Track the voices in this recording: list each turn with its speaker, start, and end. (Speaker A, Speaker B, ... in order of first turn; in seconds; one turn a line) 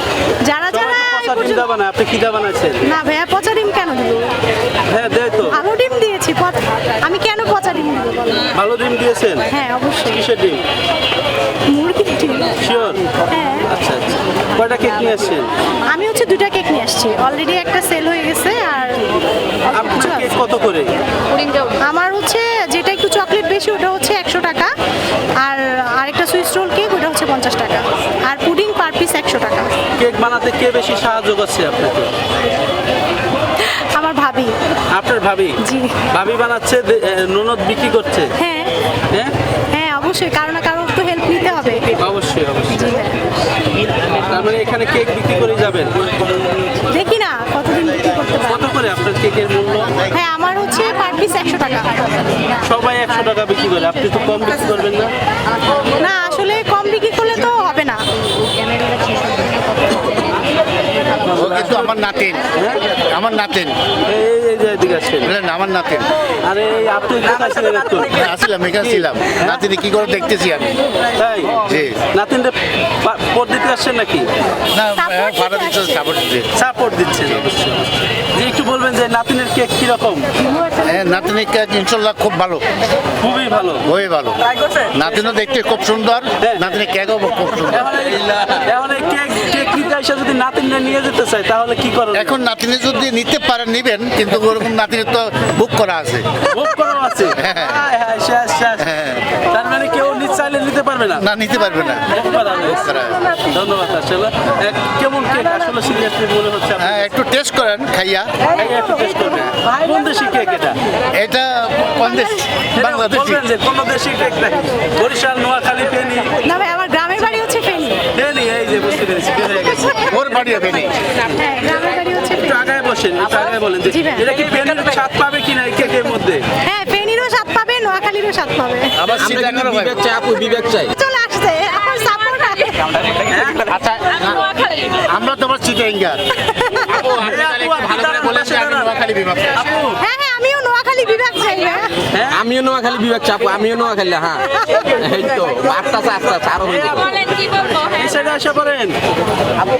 Speaker A: 0.4-1.7
Speaker B: 0.7-2.8
Speaker A: 2.8-4.3
Speaker B: 4.9-5.5
Speaker A: 5.5-8.5
Speaker B: 8.6-9.5
Speaker A: 9.5-10.3
Speaker B: 10.1-10.6
Speaker A: 11.7-12.6
Speaker B: 12.7-13.0
Speaker A: 13.3-13.7
Speaker B: 13.8-15.5
Speaker A: 15.9-19.1
Speaker B: 19.7-20.9
Speaker A: 19.7-20.4
Speaker A: 21.8-24.7
Speaker A: 25.4-29.7
Speaker B: 30.0-32.1
Speaker A: 33.6-34.5
Speaker B: 34.9-35.5
Speaker A: 35.6-36.1
Speaker B: 36.1-38.3
Speaker A: 38.4-38.7
Speaker A: 39.7-42.0
Speaker B: 42.0-42.8
Speaker A: 42.7-43.2
Speaker B: 44.2-46.0
Speaker A: 46.9-48.7
Speaker B: 48.5-49.9
Speaker A: 50.0-51.9
Speaker B: 52.7-55.1
Speaker A: 56.0-58.0
Speaker C: 61.3-63.7
Speaker B: 61.3-61.8
Speaker B: 64.1-65.3
Speaker C: 65.2-66.1
Speaker B: 66.5-68.2
Speaker C: 68.1-70.8
Speaker B: 71.2-71.6
Speaker C: 71.6-72.0
Speaker B: 72.1-74.3
Speaker C: 74.7-76.5
Speaker A: 74.9-76.1
Speaker B: 76.6-80.3
Speaker C: 80.8-82.6
Speaker B: 83.2-83.8
Speaker C: 83.8-84.4
Speaker C: 84.9-87.9
Speaker B: 87.7-92.3
Speaker C: 92.1-96.5
Speaker B: 96.5-98.8
Speaker C: 97.4-97.8
Speaker C: 98.8-99.2
Speaker B: 99.5-101.2
Speaker C: 101.2-102.2
Speaker B: 102.1-102.8
Speaker C: 102.7-103.2
Speaker B: 103.5-107.1
Speaker C: 106.8-108.3
Speaker B: 108.5-110.8
Speaker C: 111.1-113.4
Speaker B: 112.8-116.3
Speaker A: 116.4-118.0
Speaker B: 118.2-119.9
Speaker C: 120.0-121.0
Speaker A: 121.3-122.7
Speaker B: 122.4-126.4
Speaker A: 123.8-124.3
Speaker A: 126.6-129.1
Speaker C: 128.9-130.1
Speaker D: 129.2-130.9
Speaker A: 130.9-132.8
Speaker E: 132.3-132.7
Speaker B: 133.3-133.6
Speaker C: 133.6-134.4
Speaker E: 134.1-135.1
Speaker C: 135.1-136.3
Speaker A: 136.5-137.2
Speaker C: 136.9-139.6
Speaker B: 137.2-138.9
Speaker B: 139.6-139.9
Speaker A: 140.0-142.0
Speaker B: 142.1-142.4
Speaker D: 142.3-144.4
Speaker A: 144.3-144.9
Speaker D: 145.0-147.1
Speaker E: 146.6-148.3
Speaker B: 148.0-148.9